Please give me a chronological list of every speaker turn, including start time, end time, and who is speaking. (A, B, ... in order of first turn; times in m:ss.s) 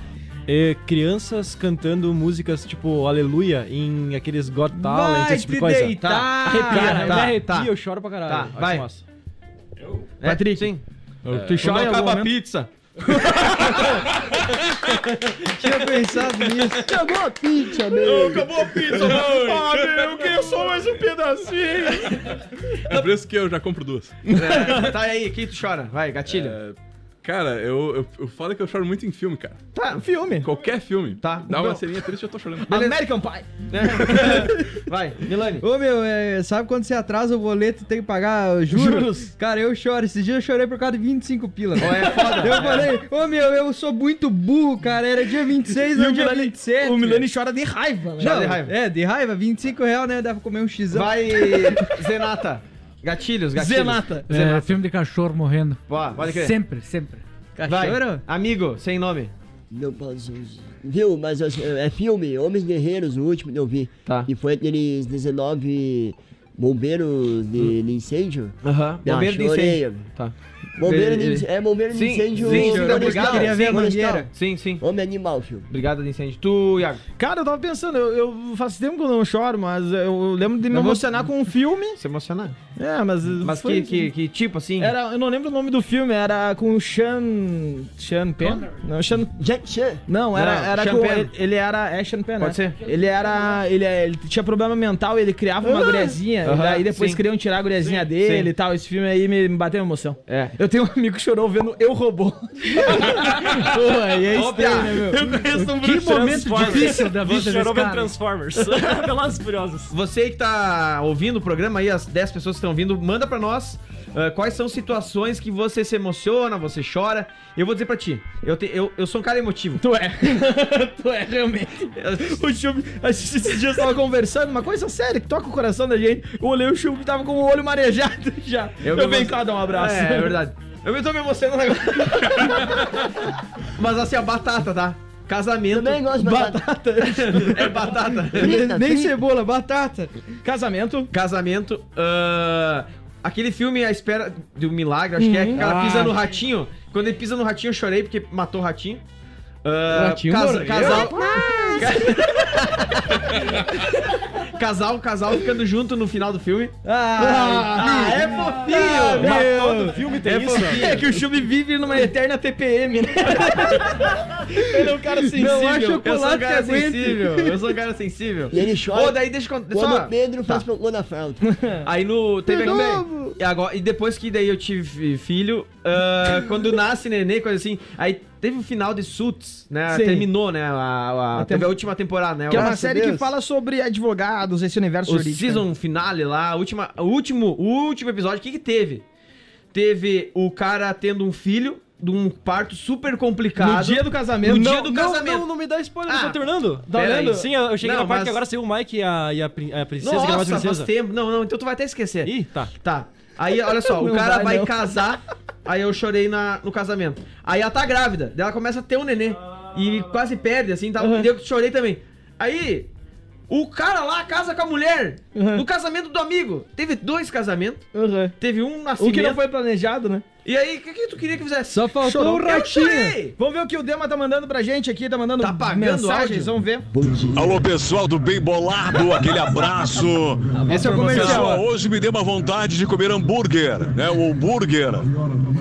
0:00.5-0:09.0 A
0:04.8-0:07.3 B
0:05.9-0:07.2 C
0:06.0-0:07.7 D
0:08.2-0:08.8 D
0:10.2-0:10.8 D
0:10.2-0:10.7 B
0:11.2-0:12.3 B
0:11.3-0:11.6 E
0:11.4-0:14.0 D
0:13.1-0:14.0 B
0:14.9-0:15.3 D
0:15.5-0:16.9 C
0:16.8-0:18.5 F
0:18.0-0:19.8 D
0:18.1-0:22.4 B
0:22.9-0:24.9 E
0:24.3-0:26.6 D
0:26.3-0:29.6 E
0:29.7-0:30.0 D
0:30.0-0:30.5 B
0:30.4-0:32.7 E
0:31.2-0:31.8 D
0:32.6-0:34.5 B
0:32.7-0:33.0 D
0:33.7-0:35.6 D
0:35.6-0:47.3 C
0:38.7-0:39.3 B
0:41.8-0:42.9 D
0:42.1-0:42.8 B
0:45.8-0:48.5 B
0:48.2-0:48.7 D
0:48.2-0:51.8 C
0:50.9-0:54.8 D
0:53.5-0:54.2 B
0:54.3-0:57.2 G
0:55.9-0:56.6 D
0:57.6-0:58.2 C
0:57.6-0:59.3 D
0:59.7-1:10.1 F
1:08.6-1:14.8 D
1:10.8-1:14.3 F
1:12.4-1:13.0 B
1:12.5-1:14.3 C
1:14.8-1:15.7 F
1:15.7-1:17.0 D
1:17.2-1:22.0 B
1:20.7-1:21.0 C
1:22.0-1:22.6 D
1:22.8-1:24.1 B
1:23.4-1:24.9 D
1:24.8-1:29.3 B
1:29.4-1:30.0 F
1:30.1-1:46.9 B
1:30.3-1:31.3 D
1:32.4-1:32.8 D
1:36.4-1:37.2 D
1:37.8-1:38.5 D
1:40.3-1:40.5 D
1:43.4-1:43.7 D
1:43.6-1:45.3 C
1:44.3-1:45.2 D
1:45.5-1:48.1 G
1:45.9-1:49.9 A
1:49.9-1:59.8 D
1:59.8-2:10.4 B
2:02.0-2:02.4 D
2:08.8-2:16.1 D
2:15.7-2:16.6 F
2:16.2-2:18.0 B
2:17.0-2:18.6 D
2:18.3-2:19.1 F
2:18.4-2:20.1 C
2:20.4-2:21.1 B
2:21.1-2:29.0 D
2:25.2-2:26.1 B
2:25.6-2:25.8 C
2:29.6-2:31.2 D
2:29.9-2:32.0 C
2:30.5-2:32.5 B
2:31.8-2:36.8 D
2:36.8-2:39.9 C
2:37.2-2:39.9 B
2:37.7-2:39.5 D
2:38.7-2:41.0 A
2:40.2-2:41.0 D
2:40.7-2:46.0 B
2:45.3-2:47.6 C
2:46.0-2:50.6 D
2:48.5-2:51.4 F
2:51.8-3:02.7 D
2:52.5-2:53.3 B
2:52.6-2:53.3 C
2:59.9-3:00.3 B
3:01.3-3:01.7 B
3:02.5-3:05.6 B
3:02.5-3:03.3 C
3:05.1-3:09.0 D
3:09.7-3:15.4 D
3:13.6-3:14.8 B
3:14.4-3:20.9 A
3:16.1-3:16.4 D
3:16.9-3:17.5 B
3:16.9-3:18.4 D
3:20.0-3:32.9 D
3:22.2-3:22.7 A
3:23.7-3:24.9 B
3:31.0-3:31.3 B
3:33.5-3:37.9 D
3:35.3-3:35.6 B
3:37.9-3:38.4 B
3:38.4-3:39.4 D
3:39.0-3:40.2 B
3:40.4-3:43.3 D
3:41.7-3:43.2 C
3:42.0-3:46.9 B
3:45.4-3:46.5 D
3:46.9-3:47.6 F
3:47.3-3:55.1 H
3:50.6-3:51.6 C
3:50.7-3:51.5 B
3:50.9-3:51.4 D